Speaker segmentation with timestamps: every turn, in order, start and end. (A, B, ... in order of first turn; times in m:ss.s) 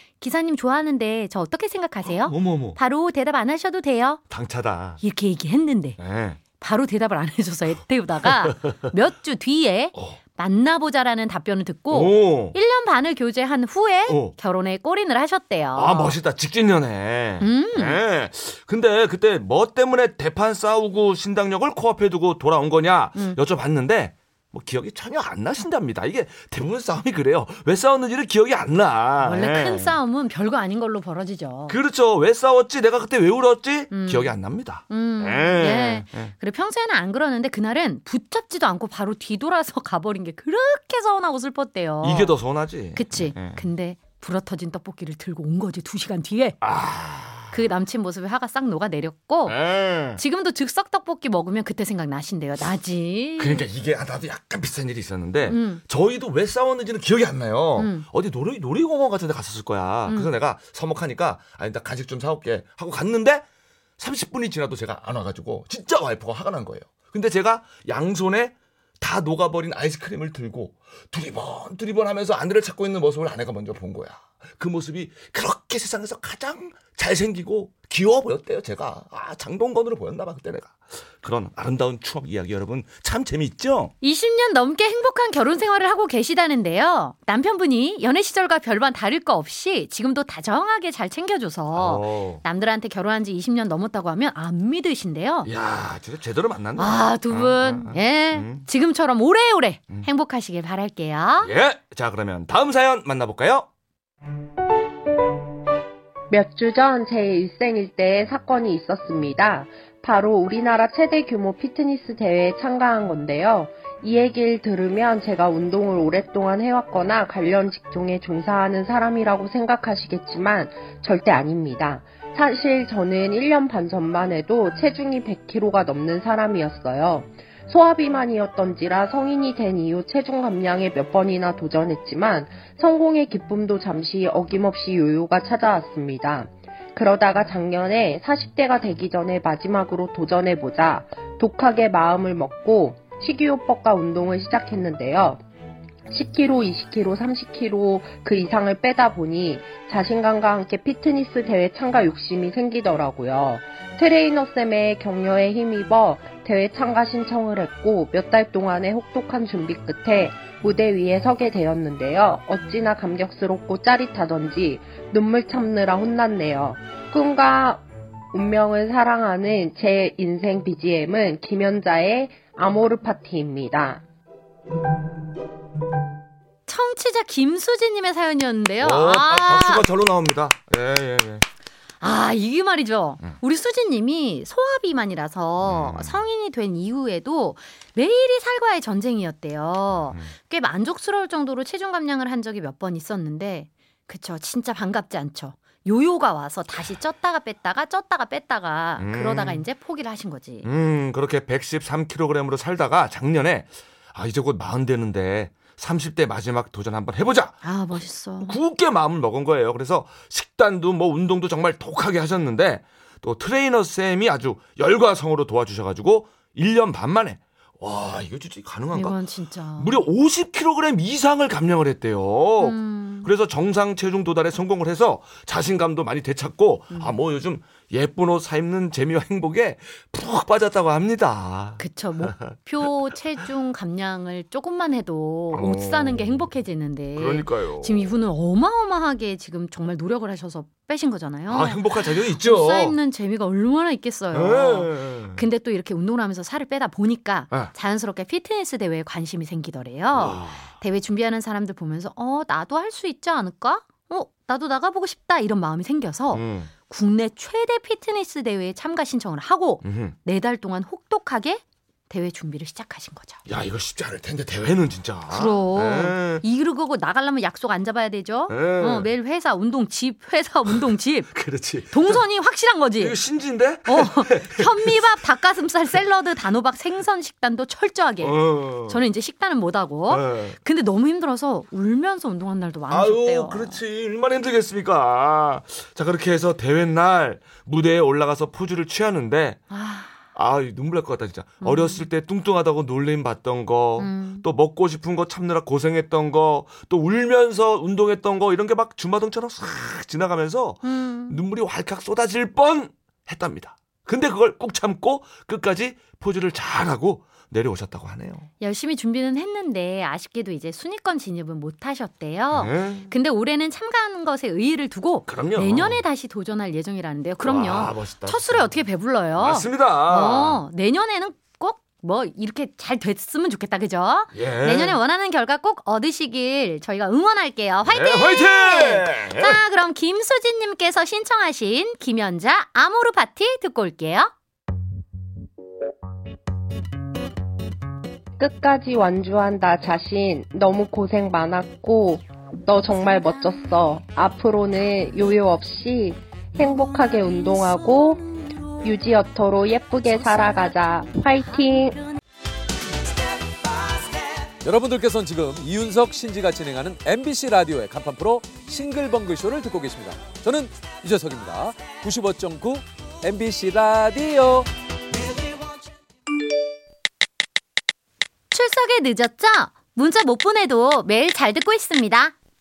0:00.2-0:04.2 A
0:02.0-0:02.8 B
0:04.3-0:05.0 B
0:05.0-0:06.0 A
0:06.0-0:06.4 B
0:06.6-0:16.2 A
0:11.9-0:12.6 B
0:14.1-0:14.3 B
0:15.8-0:30.0 B
0:17.4-0:18.0 A
0:29.2-0:31.8 A
0:31.7-0:36.3 B
0:33.9-0:34.4 A
0:34.9-0:42.3 A
0:42.0-0:43.6 B
0:42.9-0:46.6 A
0:46.6-0:47.6 B
0:47.5-0:49.6 A
0:49.4-0:50.2 B
0:50.2-0:53.6 A
0:53.4-1:03.4 B
0:55.4-0:55.8 A
0:57.8-0:58.0 A
1:04.0-1:23.9 B
1:24.0-1:35.5 A
1:31.7-1:32.4 B
1:35.4-1:38.6 B
1:36.8-1:41.5 A
1:41.4-1:43.7 B
1:46.3-2:25.4 C
2:26.1-2:54.0 C
2:56.7-2:59.8 A
2:58.8-3:01.4 B
3:02.0-3:20.6 A
3:05.6-3:06.2 B
3:19.0-3:19.6 B
3:20.6-3:27.6 B
3:27.6-3:28.5 A
3:28.4-3:39.2 B
3:38.9-3:39.9 A
3:39.8-3:52.6 B
3:42.6-3:43.3 A
3:51.8-4:23.4 A
3:55.5-3:56.5 B
3:57.1-3:58.1 B
4:01.5-4:03.0 B
4:04.3-4:05.4 B
4:10.1-4:10.7 B
4:16.3-4:16.7 B
4:19.8-4:20.2 B
4:23.5-4:26.4 B
4:25.3-4:31.3 A
4:28.5-4:29.1 B
4:30.7-4:32.2 B
4:31.9-4:33.2 A
4:33.0-4:35.0 B
4:33.8-4:43.8 A
4:38.2-4:39.0 B
4:40.1-4:40.6 B
4:42.9-4:49.6 B
4:49.7-4:50.1 A
4:50.3-5:08.5 B
4:51.6-4:52.1 A
4:54.0-4:54.4 A
5:00.8-5:01.4 A
5:08.6-5:34.3 A
5:12.5-5:13.1 B
5:15.3-5:16.0 B
5:17.4-5:18.7 B
5:19.4-5:20.6 B
5:24.3-5:25.0 B
5:27.8-5:29.6 B
5:38.4-5:48.3 C
5:48.8-5:52.0 C
5:54.6-6:04.7 D
6:08.5-6:12.3 A